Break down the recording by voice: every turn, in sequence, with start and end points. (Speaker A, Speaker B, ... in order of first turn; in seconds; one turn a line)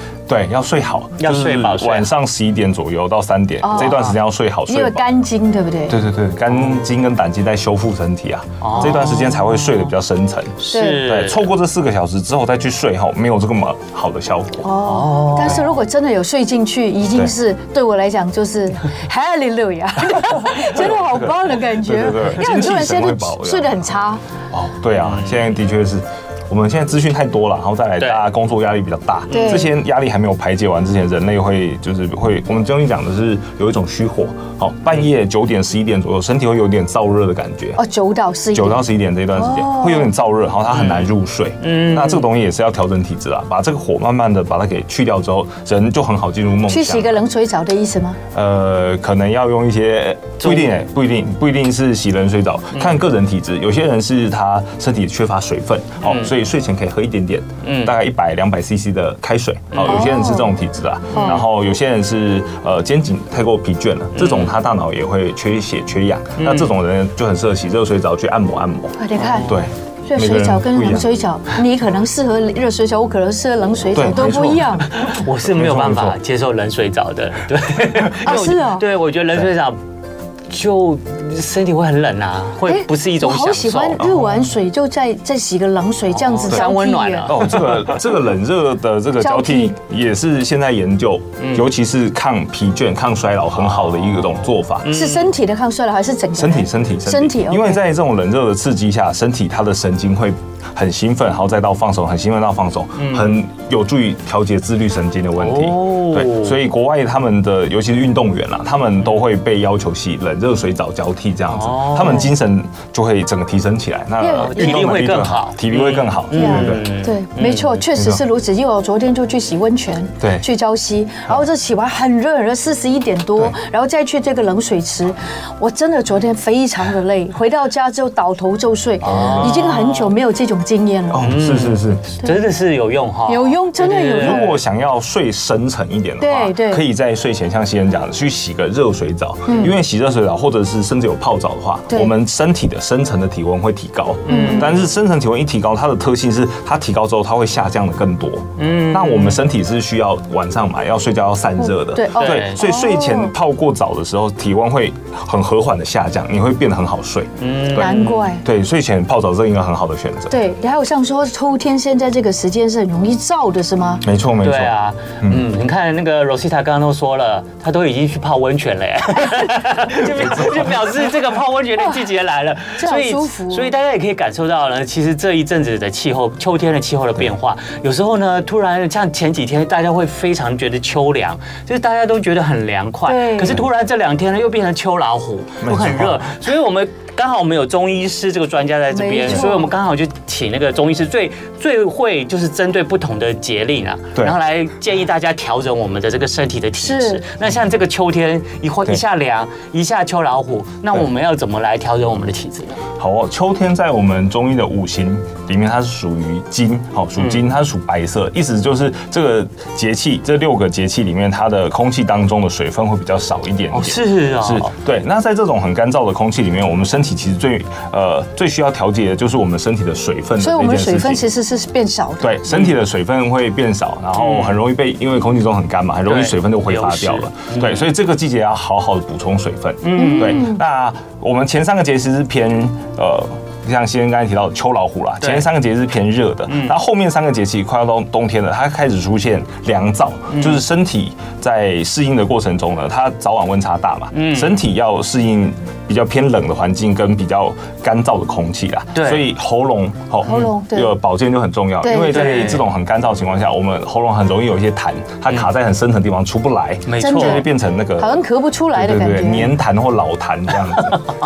Speaker A: 0.3-5.1
Speaker B: 1.2-2.1
Speaker C: 3.6-6.0
Speaker A: 5.9-14.7
Speaker B: 8.6-9.4
Speaker B: 10.6-11.5
Speaker C: 10.7-11.1
Speaker C: 14.6-24.2
Speaker B: 14.8-15.7
Speaker A: 20.6-23.8
Speaker A: 24.5-37.8
Speaker B: 25.0-25.4
Speaker B: 28.0-28.2
Speaker C: 29.3-29.8
Speaker B: 29.3-29.6
Speaker C: 37.8-40.1
Speaker A: 38.5-47.2
Speaker B: 40.7-42.3
Speaker C: 46.7-48.2
Speaker A: 48.3-71.2
Speaker B: 50.4-50.7
Speaker B: 56.0-56.3
Speaker B: 57.6-57.9
Speaker B: 59.7-60.1
Speaker C: 59.9-60.5
Speaker B: 61.1-61.5
Speaker C: 61.1-61.4
Speaker B: 64.2-64.5
Speaker B: 66.4-66.7
Speaker C: 69.0-69.6
Speaker C: 70.1-74.9
Speaker A: 73.9-76.2
Speaker B: 74.9-79.8
Speaker C: 78.2-78.8
Speaker B: 80.5-84.0
Speaker C: 82.7-87.5
Speaker A: 84.0-84.5
Speaker B: 86.1-87.7
Speaker A: 87.3-94.9
Speaker C: 89.2-89.7
Speaker B: 91.4-91.7
Speaker B: 93.6-95.3
Speaker C: 94.9-97.8
Speaker A: 96.4-116.9
Speaker B: 103.0-103.4
Speaker B: 105.4-106.6
Speaker B: 111.5-112.3
Speaker C: 114.2-115.0
Speaker B: 114.4-117.8
Speaker C: 116.3-131.3
Speaker A: 118.0-118.2
Speaker A: 120.2-120.5
Speaker B: 129.0-130.2
Speaker A: 129.0-129.7
Speaker A: 131.1-132.1
Speaker B: 131.2-134.6
Speaker C: 133.3-134.6
Speaker A: 134.2-160.4
Speaker C: 136.2-136.8
Speaker C: 139.5-139.7
Speaker B: 144.3-144.8
Speaker C: 144.3-144.7
Speaker B: 148.6-149.4
Speaker C: 151.6-153.3
Speaker B: 152.2-152.6
Speaker B: 157.4-158.3
Speaker C: 157.8-158.4
Speaker C: 160.3-164.0
Speaker A: 164.0-165.4
Speaker B: 164.4-202.8
Speaker A: 170.0-170.8
Speaker C: 171.8-172.1
Speaker C: 172.8-173.7
Speaker C: 183.1-183.6
Speaker A: 185.6-186.3
Speaker C: 188.9-189.8
Speaker C: 196.8-197.2
Speaker A: 203.0-221.2
Speaker B: 213.7-214.7
Speaker C: 220.4-222.4
Speaker A: 222.2-258.2
Speaker B: 224.2-224.6
Speaker B: 226.1-227.9
Speaker B: 229.8-230.5
Speaker C: 229.9-230.6
Speaker B: 235.2-235.5
Speaker B: 236.5-236.8
Speaker B: 240.3-240.6
Speaker B: 244.1-244.6
Speaker B: 248.9-249.3
Speaker C: 250.2-251.0
Speaker B: 250.3-250.5
Speaker C: 251.8-252.5
Speaker B: 252.1-252.7
Speaker B: 256.9-257.4
Speaker C: 257.0-259.5
Speaker A: 258.7-261.0